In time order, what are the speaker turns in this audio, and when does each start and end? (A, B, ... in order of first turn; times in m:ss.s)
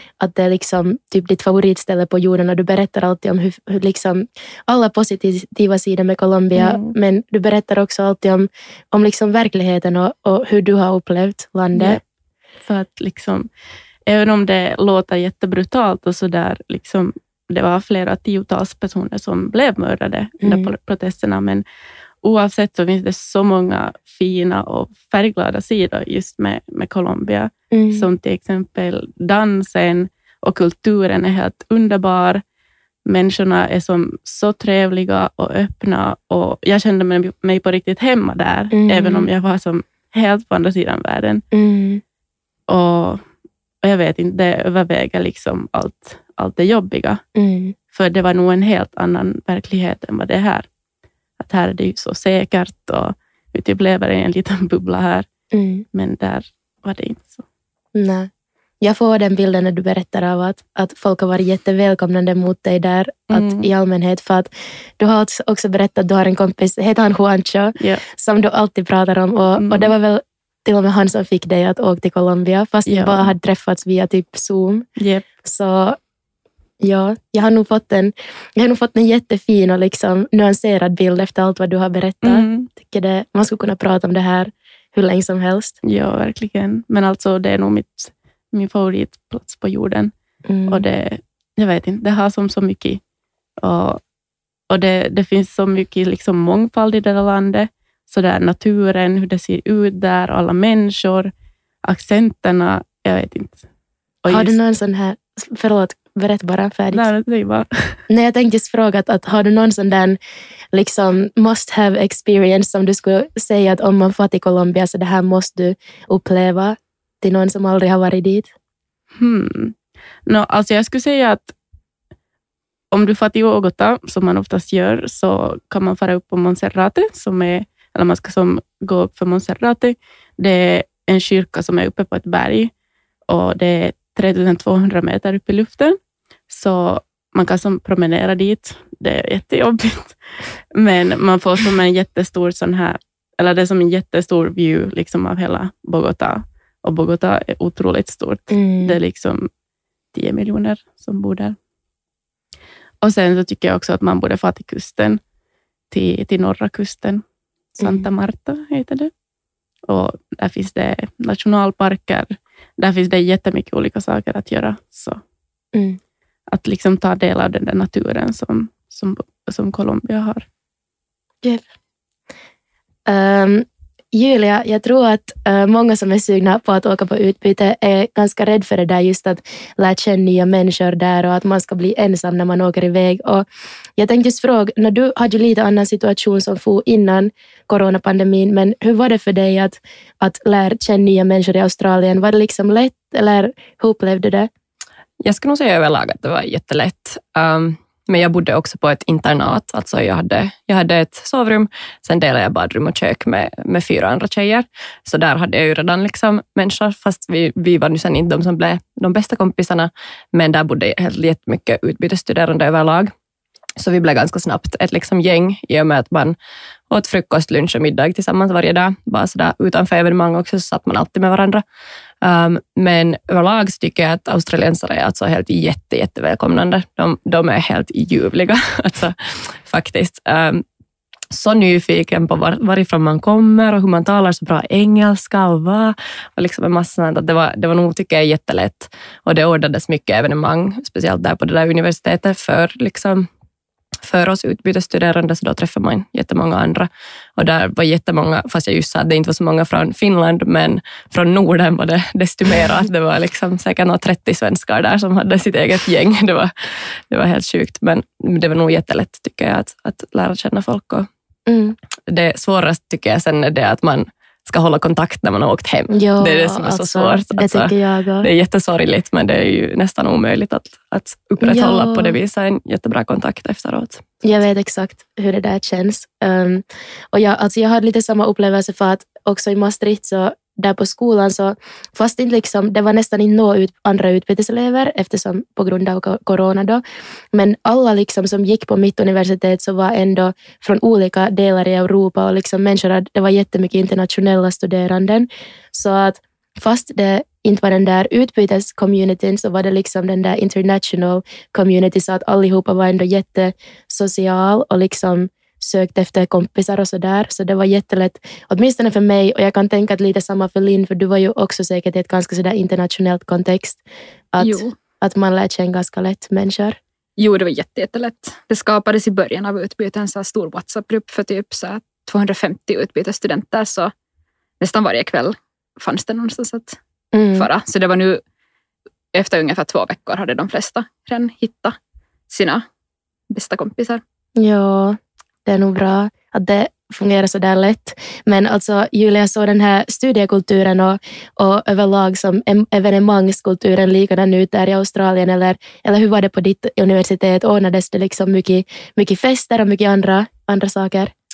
0:00.2-0:12.0 A
0:06.6-0:06.9 B
0:11.7-0:12.0 B
0:12.6-0:13.5 B
0:14.1-0:21.6 B
0:20.4-0:20.7 A
0:22.2-0:32.4 B
0:27.7-0:28.1 A
0:33.1-0:41.4 B
0:38.7-0:39.3 A
0:41.5-0:42.0 A
0:42.7-0:43.2 B
0:43.8-0:47.2 B
0:47.4-0:47.7 A
0:47.9-0:50.7 B
0:51.4-0:55.3 B
0:55.5-0:55.8 A
0:55.9-0:57.4 B
0:57.9-0:58.3 A
0:58.8-1:14.9 A
1:03.3-1:03.7 B
1:09.6-1:09.9 B
1:12.9-1:13.3 B
1:15.0-1:15.3 B
1:15.4-1:16.0 A
1:16.8-1:25.8 A
1:22.2-1:22.7 B
1:25.8-1:30.1 B
1:30.5-1:30.9 A
1:30.7-1:33.0 B
1:33.6-1:34.0 B
1:34.7-1:41.3 B
1:41.8-1:43.6 B
1:44.2-1:44.6 B
1:44.3-1:47.1 A
1:46.9-1:48.0 B
1:48.1-1:50.2 A
1:50.7-1:58.5 A
1:59.2-1:59.8 B
2:00.3-2:01.5 B
2:02.9-2:12.7 B
2:13.3-2:16.0 B
2:16.5-2:20.2 B
2:20.7-2:29.5 B
2:28.5-2:29.0 A
2:30.1-2:31.6 B
2:33.0-2:35.2 B
2:35.9-2:37.2 B
2:37.7-2:39.1 B
2:37.8-2:38.1 A
2:39.9-2:45.2 B
2:46.5-2:50.4 B
2:53.1-3:03.4 A
3:04.0-3:14.5 A
3:15.2-3:33.1 C
3:33.8-3:36.4 C
3:36.9-3:41.6 C
3:42.2-3:50.6 C
3:51.3-4:03.3 C
4:04.0-4:21.1 C
4:21.5-4:21.8 A
4:22.1-4:34.0 C
4:25.9-4:28.3 A
4:31.4-4:32.2 A
4:34.2-4:46.8 A
4:47.3-5:13.8 A
5:14.3-5:16.8 A
5:14.4-5:14.7 D
5:17.2-5:23.9 D
5:24.6-5:26.8 D
5:27.1-5:27.5 A
5:27.4-5:28.2 D
5:29.1-5:31.8 D
5:32.3-5:32.6 D
5:33.3-5:34.0 D
5:34.4-5:51.1 A